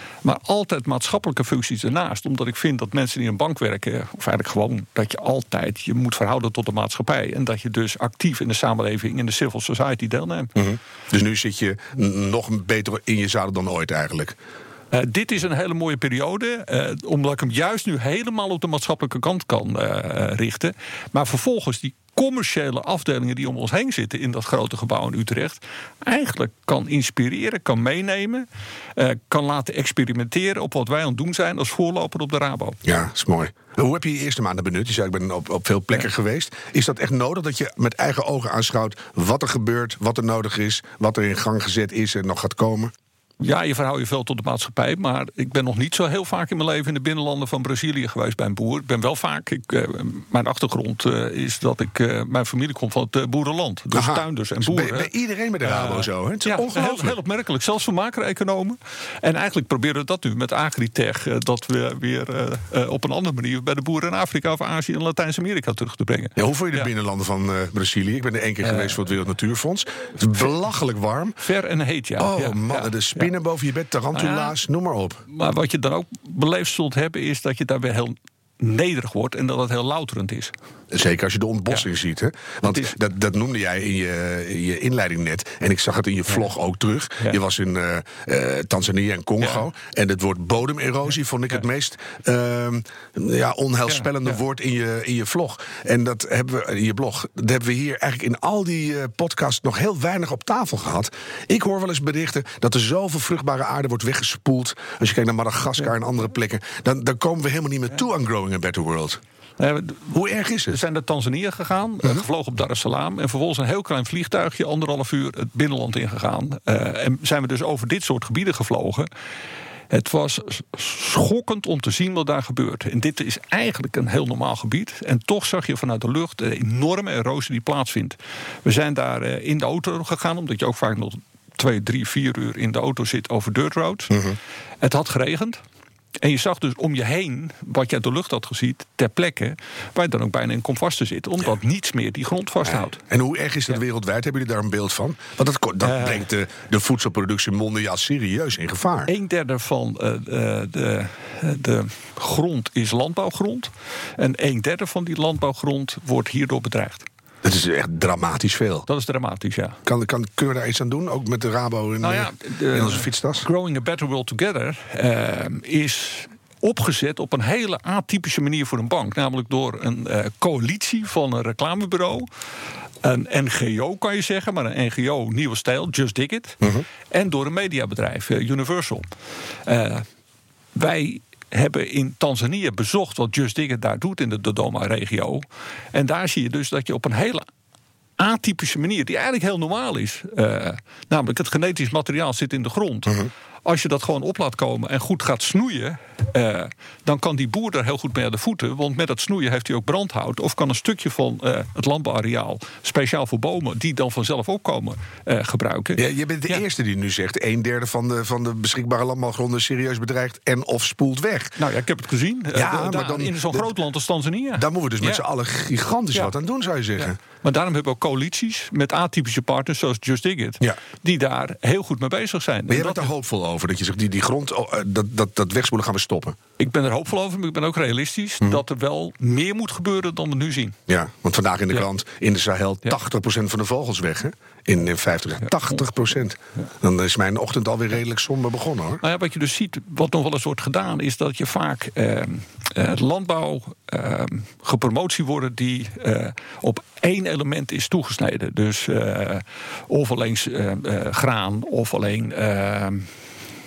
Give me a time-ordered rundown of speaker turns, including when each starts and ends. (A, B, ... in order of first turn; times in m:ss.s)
0:00.2-0:10.5 A
0:10.6-0:14.4 B
0:14.9-0:32.8 A
0:32.8-0:42.9 B
0:43.4-0:55.1 A
0:53.9-0:57.2 B
0:55.6-1:06.9 A
1:06.4-1:11.4 B
1:08.6-1:09.0 A
1:11.4-1:13.3 A
1:12.2-1:15.2 B
1:14.1-1:14.6 A
1:15.3-1:20.5 A
1:20.9-1:49.2 B
1:22.7-1:22.9 A
1:49.6-1:50.2 A
1:50.1-1:50.8 B
1:50.7-1:59.1 A
1:59.9-2:14.3 A
2:14.1-2:14.4 B
2:14.8-2:15.6 A
2:16.2-2:23.0 A
2:23.0-2:29.1 B
2:25.8-2:26.3 A
2:29.1-2:37.1 A
2:37.4-2:38.9 B
2:38.9-2:39.8 A
2:39.8-2:43.5 B
2:42.0-2:52.3 A
2:53.0-2:59.1 A
2:59.7-3:00.1 A
3:00.8-3:07.4 A
3:08.2-3:26.6 A
3:26.0-3:31.6 B
3:31.6-3:35.2 A
3:32.5-3:33.7 B
3:34.6-3:37.2 B
3:37.0-3:43.1 A
3:42.7-3:46.4 B
3:46.6-3:50.8 A
3:50.9-3:59.0 B
3:59.0-4:13.1 A